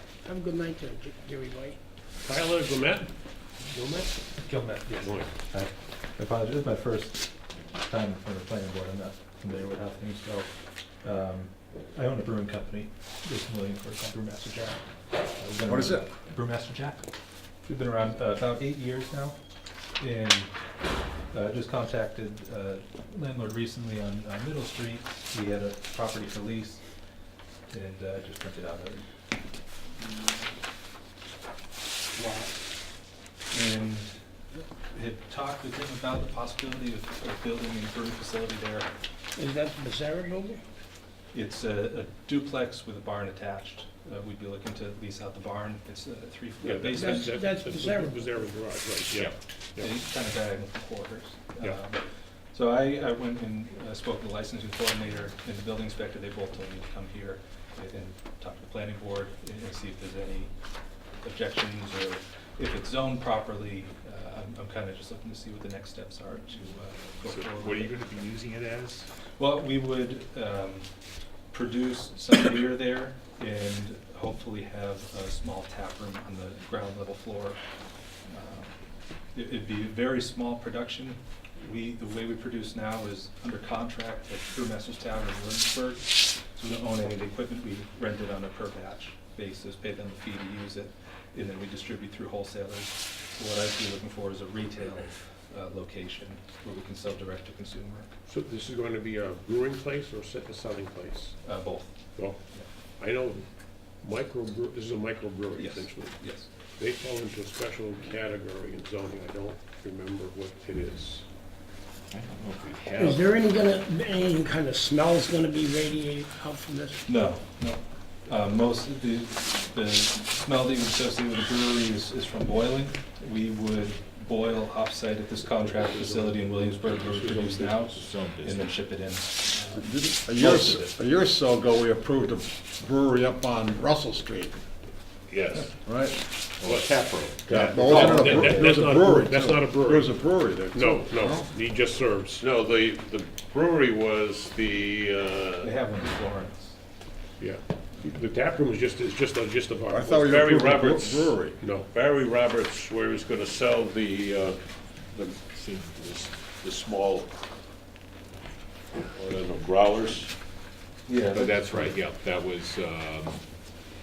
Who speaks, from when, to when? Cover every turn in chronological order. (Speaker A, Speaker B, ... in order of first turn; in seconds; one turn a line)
Speaker A: 0.2-1.8
Speaker B: 2.2-3.1
Speaker B: 3.7-4.1
Speaker C: 4.4-10.5
Speaker B: 5.0-5.3
Speaker C: 11.0-14.8
Speaker C: 15.4-17.0
Speaker D: 15.6-16.0
Speaker C: 17.6-19.4
Speaker C: 20.0-20.5
Speaker C: 21.3-26.8
Speaker C: 27.7-29.1
Speaker C: 30.0-30.5
Speaker C: 32.1-32.6
Speaker C: 33.5-38.9
Speaker A: 39.4-40.6
Speaker C: 41.3-47.4
Speaker B: 46.6-49.9
Speaker A: 46.9-48.4
Speaker C: 49.8-52.0
Speaker C: 52.5-60.5
Speaker C: 61.2-67.9
Speaker E: 67.2-69.1
Speaker C: 69.4-70.9
Speaker C: 71.5-77.6
Speaker C: 78.3-78.7
Speaker C: 79.3-98.1
Speaker B: 98.2-101.3
Speaker C: 101.4-102.7
Speaker B: 103.0-103.4
Speaker B: 104.0-106.1
Speaker C: 105.5-106.5
Speaker B: 106.8-111.2
Speaker E: 112.1-113.7
Speaker A: 113.0-117.2
Speaker C: 117.1-131.0
Speaker B: 125.5-128.0
Speaker E: 127.9-128.8
Speaker D: 129.8-134.6
Speaker E: 135.3-135.7
Speaker D: 135.8-136.2
Speaker E: 136.6-137.7
Speaker F: 136.6-138.0
Speaker B: 137.4-140.1
Speaker D: 137.6-141.5
Speaker C: 137.8-138.8
Speaker B: 140.7-142.4
Speaker F: 142.4-145.7
Speaker C: 145.6-146.8
Speaker B: 147.4-150.4
Speaker D: 149.9-151.6
Speaker F: 150.1-157.3
Speaker B: 151.6-151.9
Speaker E: 155.4-156.1
Speaker F: 159.1-160.3
Speaker C: 161.1-161.8
Speaker E: 161.3-163.4